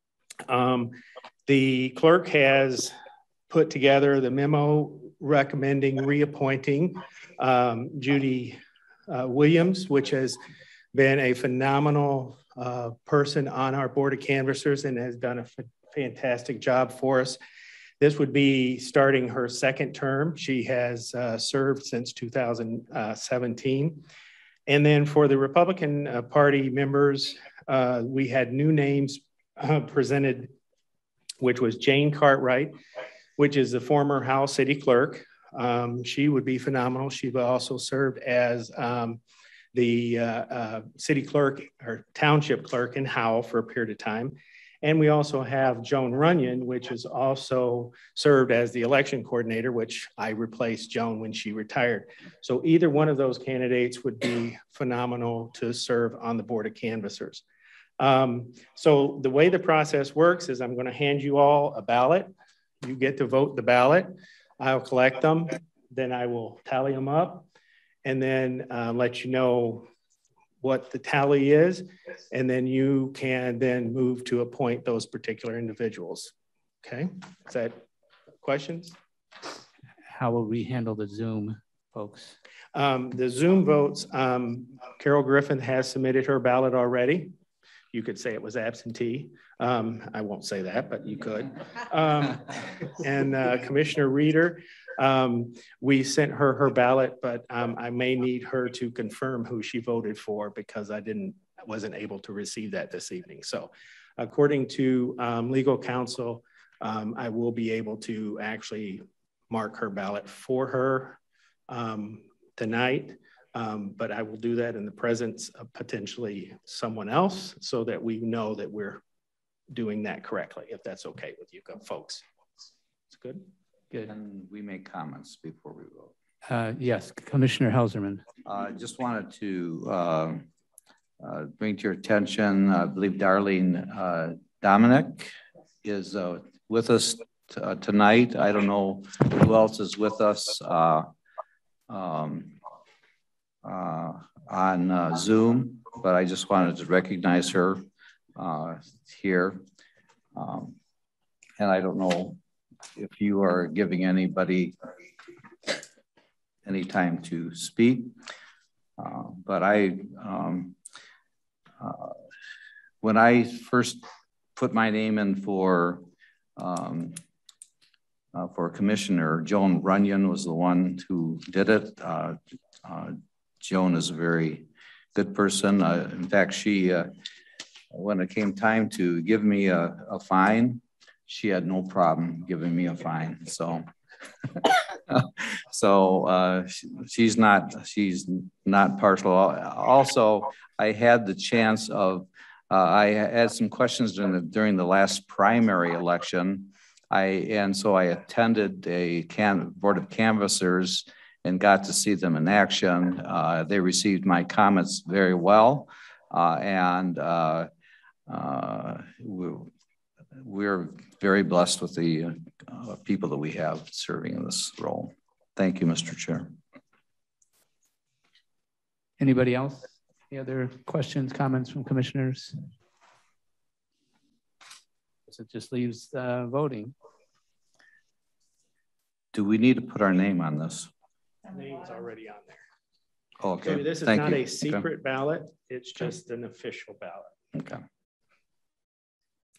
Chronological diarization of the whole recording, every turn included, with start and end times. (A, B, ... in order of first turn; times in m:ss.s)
0:00.5-0:00.9 A
0:01.5-0:02.9 A
0:03.5-0:10.4 A
0:10.9-0:17.4 A
0:18.0-0:24.0 A
0:24.7-0:30.5 A
0:31.4-0:32.8 A
0:33.4-0:39.2 A
0:39.7-0:57.4 A
0:58.0-1:07.5 A
1:08.0-1:09.9 A
1:10.6-1:16.3 A
1:16.8-1:17.8 A
1:18.4-1:19.0 A
1:20.1-1:22.4 B
1:22.7-1:27.3 A
1:27.9-1:51.2 A
1:51.7-1:59.0 A
1:59.7-2:02.2 A
2:03.1-2:03.5 A
2:04.0-2:06.1 C
2:06.4-2:08.2 B
2:08.4-2:10.4 C
2:11.2-2:15.3 C
2:15.8-2:21.1 C
2:21.9-2:22.6 C
2:23.6-2:27.8 C
2:28.4-2:29.6 C
2:30.3-2:30.8 C
2:31.6-2:32.4 C
2:33.0-2:34.7 C
2:36.6-2:38.1 C
2:39.0-2:40.8 C
2:41.8-2:42.2 C
2:43.0-2:44.0 C
2:44.6-2:46.0 C
2:46.6-2:47.2 C
2:48.3-2:57.1 C
2:57.9-3:03.8 C
3:04.6-3:27.7 C
3:28.3-3:29.7 C
3:30.4-3:36.5 C
3:39.2-3:42.6 B
3:45.3-3:46.9 B
3:49.3-3:50.9 C
3:51.5-3:52.6 A
3:53.4-3:54.9 C
3:53.6-3:57.3 A
3:57.5-3:57.8 C